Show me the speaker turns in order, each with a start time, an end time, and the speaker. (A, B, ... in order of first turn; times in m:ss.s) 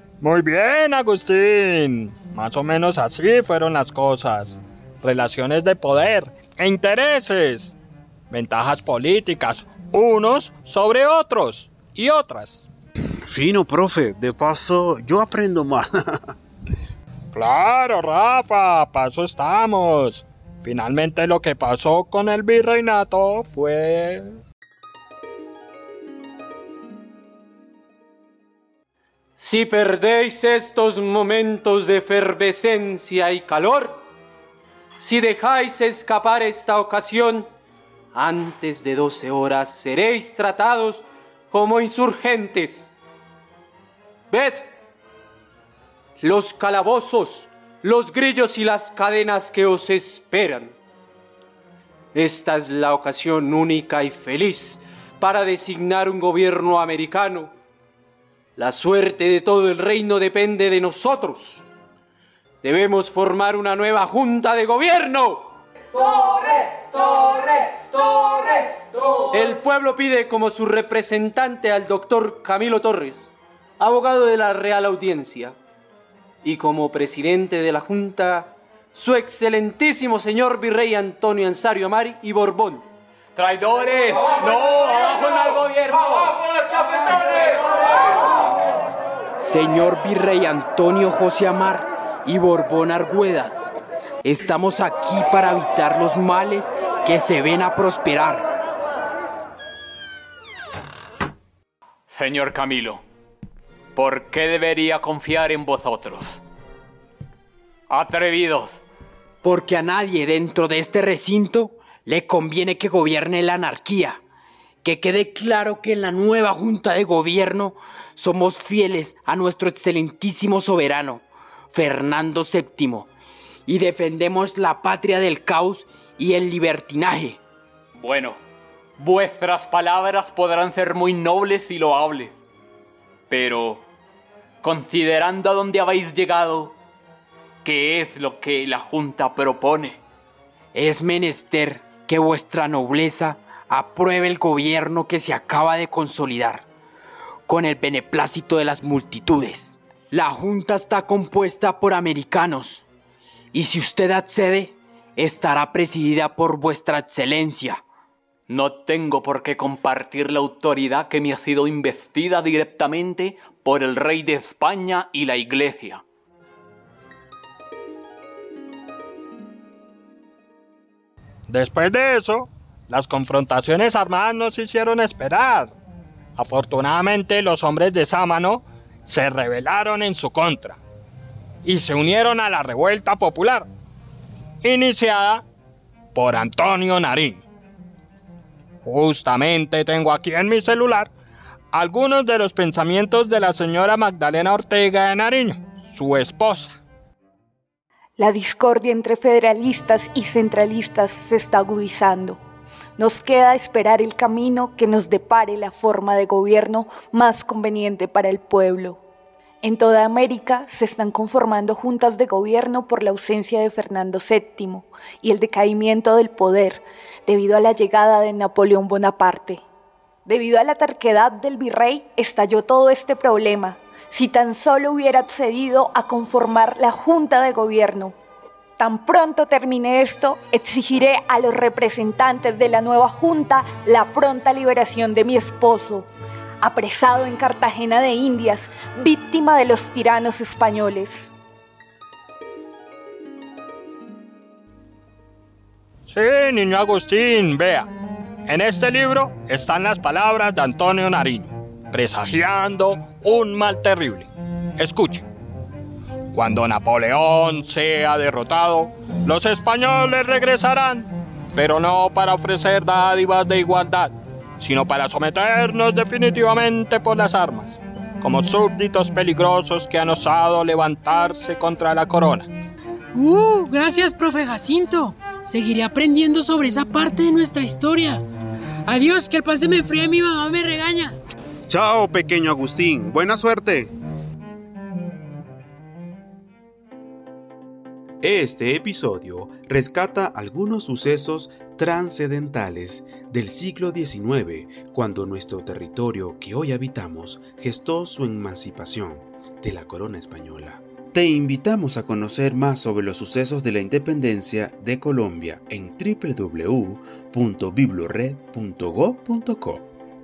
0:00.2-0:07.8 A
0:08.3-0:12.7 A
0:13.3-0:16.2 B
0:17.3-0:24.4 A
0:29.4-0:34.0 C
0:35.0-0:37.5 C
0:38.1-0:43.0 C
0:44.3-0:44.6 C
0:46.2-0:50.8 C
0:52.2-0:57.5 C
0:58.6-1:01.6 C
1:02.6-1:15.6 C
1:16.4-1:22.9 C
1:23.4-1:27.5 D
1:29.4-1:33.7 E
1:34.2-1:38.5 E
1:42.1-1:43.0 D
1:44.0-1:46.4 D
1:47.9-1:48.8 D
1:49.4-1:54.2 E
1:54.8-2:03.1 E
2:03.7-2:07.4 E
2:08.0-2:08.4 D
2:09.0-2:12.4 D
2:13.3-2:13.8 D
2:14.6-2:16.8 D
2:17.6-2:20.0 D
2:20.7-2:26.6 E
2:27.5-2:32.8 E
2:33.5-2:37.8 E
2:38.5-2:46.0 D
2:51.5-2:55.8 A
2:56.4-3:00.8 A
3:01.6-3:03.7 A
3:04.6-3:05.4 A
3:06.1-3:07.4 A
3:08.8-3:11.1 A
3:11.7-3:16.8 A
3:18.2-3:22.4 F
3:23.0-3:29.0 F
3:29.6-3:39.6 F
3:40.3-3:48.1 F
3:48.8-3:56.1 F
3:56.6-4:01.3 F
4:06.1-4:07.9 A
4:08.5-4:15.3 A
4:16.3-4:32.5 A
4:33.2-4:38.2 G
4:38.9-4:41.2 G
4:41.7-4:43.9 B
4:48.2-5:09.9 B